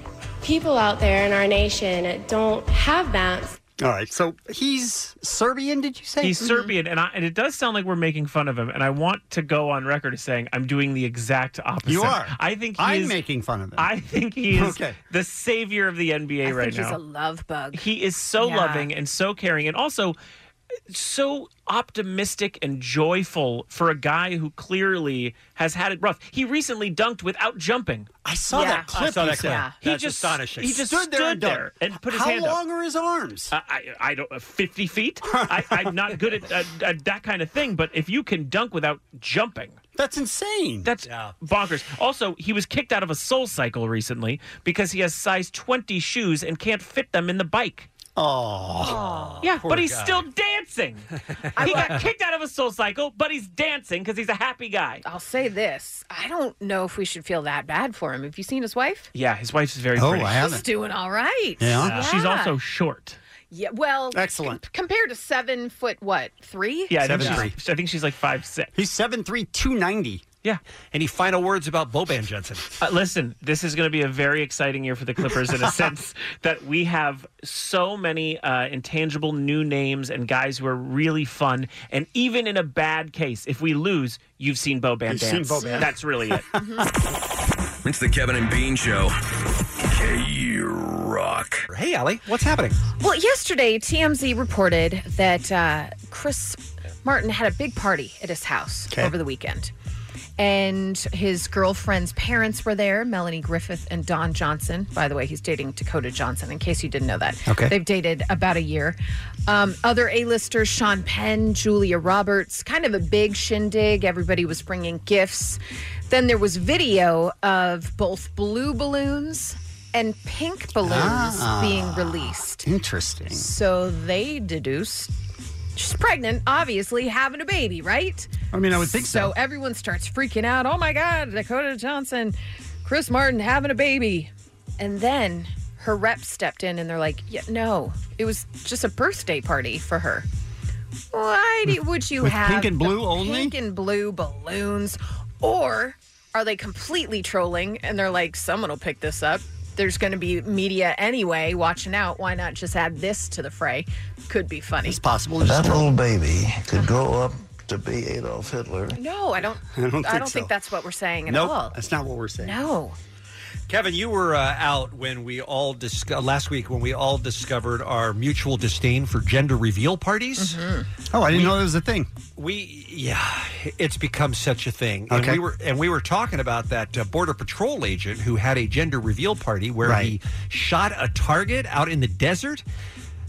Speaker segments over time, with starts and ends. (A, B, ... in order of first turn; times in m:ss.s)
0:00.4-0:03.6 A
0:03.8-0:06.4 B
0:06.2-0:13.2 C
0:06.4-0:06.7 D
0:11.8-0:13.9 B
0:13.8-0:17.0 C
0:14.5-0:15.0 B
0:16.4-0:17.8 D
0:17.7-0:20.2 C
0:18.4-0:18.9 D
0:20.9-0:28.1 C
0:28.2-0:29.6 B
0:28.5-0:29.8 D
0:28.9-0:30.8 E
0:29.8-0:32.6 C
0:30.6-0:33.5 B
0:33.5-0:39.8 C
0:35.2-0:35.9 B
0:39.9-0:40.9 B
0:40.8-0:47.9 C
0:41.0-0:41.3 E
0:48.2-0:49.0 B
0:48.8-0:50.3 E
0:48.8-0:49.4 D
0:49.4-0:55.0 C
0:51.6-0:52.0 D
0:51.6-0:52.0 E
0:55.0-0:59.1 D
0:59.1-1:00.6 C
0:59.9-1:00.6 B
1:00.4-1:02.5 D
1:01.6-1:02.0 B
1:01.8-1:03.2 C
1:03.5-1:07.5 D
1:04.1-1:04.6 B
1:06.9-1:08.7 C
1:07.0-1:07.5 B
1:08.7-1:10.2 B
1:10.9-1:12.6 E
1:12.8-1:26.5 C
1:25.1-1:26.8 B
1:25.6-1:25.9 D
1:26.5-1:26.8 D
1:27.8-1:29.1 F
1:29.8-1:31.6 F
1:31.7-1:32.8 E
1:33.0-1:39.7 D
1:40.4-2:02.6 D
1:47.5-1:47.7 B
2:00.8-2:03.5 B
2:03.3-2:05.1 D
2:05.8-2:20.2 D
2:08.5-2:09.3 B
2:21.1-2:35.0 D
2:22.2-2:23.5 B
2:34.8-2:35.9 B
2:35.4-2:39.0 G
2:38.9-2:41.8 D
2:39.7-2:40.5 B
2:41.3-2:42.6 B
2:42.4-2:43.0 D
2:43.7-2:50.6 E
2:50.4-2:50.9 D
2:51.1-2:52.1 B
2:51.3-2:51.6 E
2:52.4-3:02.6 E
2:55.1-2:55.4 B
2:59.8-3:00.1 B